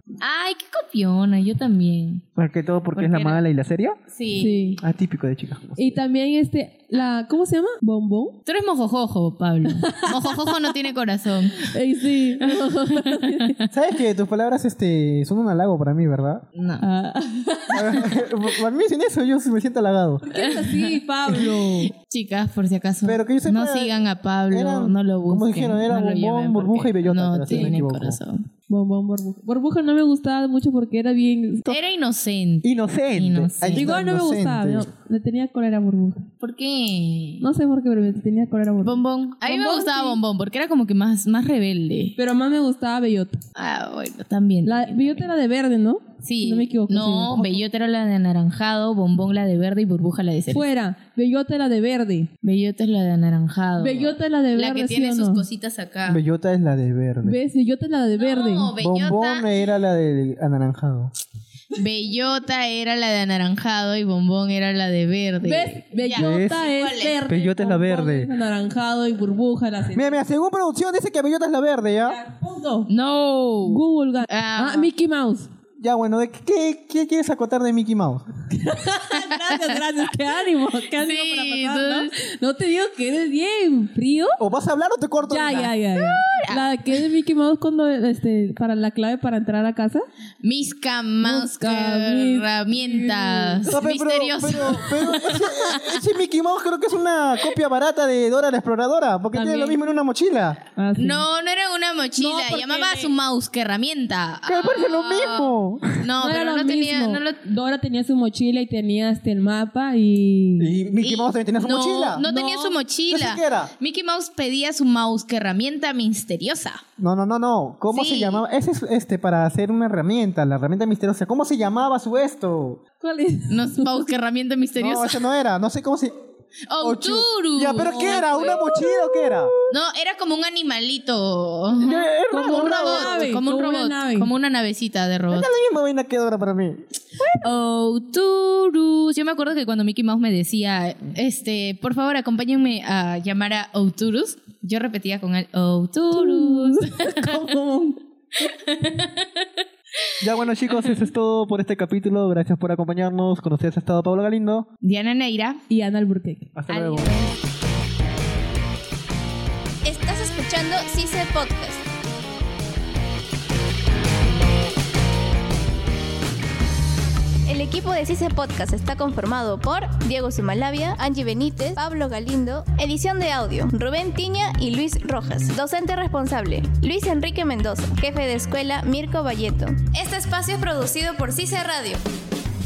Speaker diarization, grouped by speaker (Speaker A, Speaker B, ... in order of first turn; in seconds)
Speaker A: 0.2-2.2, 2.9-3.4, 4.1-4.8, 8.4-11.7, 12.4-13.5, 16.5-16.8, 20.3-28.5, 31.6-34.0, 36.4-37.5, 38.8-42.2, 43.5-45.3, 46.2-50.7, 52.4-56.2, 58.1-59.5, 61.8-67.2, 72.9-74.9, 79.1-79.8, 80.9-82.1, 85.6-87.1, 90.4-95.2, 100.9-107.4, 111.0-116.8, 117.9-118.4, 123.5-125.2, 126.7-128.6, 129.7-135.5, 137.4-147.4, 148.7-149.2, 150.7-151.0, 154.8-155.6, 156.7-157.3
Speaker B: 2.4-4.0, 4.8-6.0, 13.7-16.4, 17.7-20.2, 23.0-28.2, 32.6-34.9, 56.0-57.4, 58.8-61.1, 66.1-66.7, 67.2-68.3, 69.9-72.2, 75.8-78.2, 84.4-85.7, 93.7-100.6, 104.4-105.9, 110.6-112.2, 113.1-113.7, 117.0-122.8, 124.8-126.1, 126.8-129.5, 131.8-133.3, 135.3-136.8, 150.2-154.7, 156.5-157.1
Speaker C: 4.3-4.8, 5.8-8.4, 9.8-10.5, 11.6-13.5, 16.8-18.0, 20.2-21.9, 27.5-27.8, 28.7-31.8, 33.8-36.2, 37.4-40.2, 42.1-43.4, 44.6-47.6, 50.5-52.3, 53.8-55.4, 57.2-58.7, 65.4-70.2, 72.0-72.9, 73.7-75.5, 78.5-84.4, 85.3-90.0, 91.2-93.7, 99.3-99.8, 100.8-101.2, 102.2-103.2, 106.2-110.7, 112.2-112.8, 123.0-124.0, 127.9-129.7, 132.3-134.3, 146.1-148.0, 155.7-156.5
Speaker D: 159.8-161.8, 167.5-182.0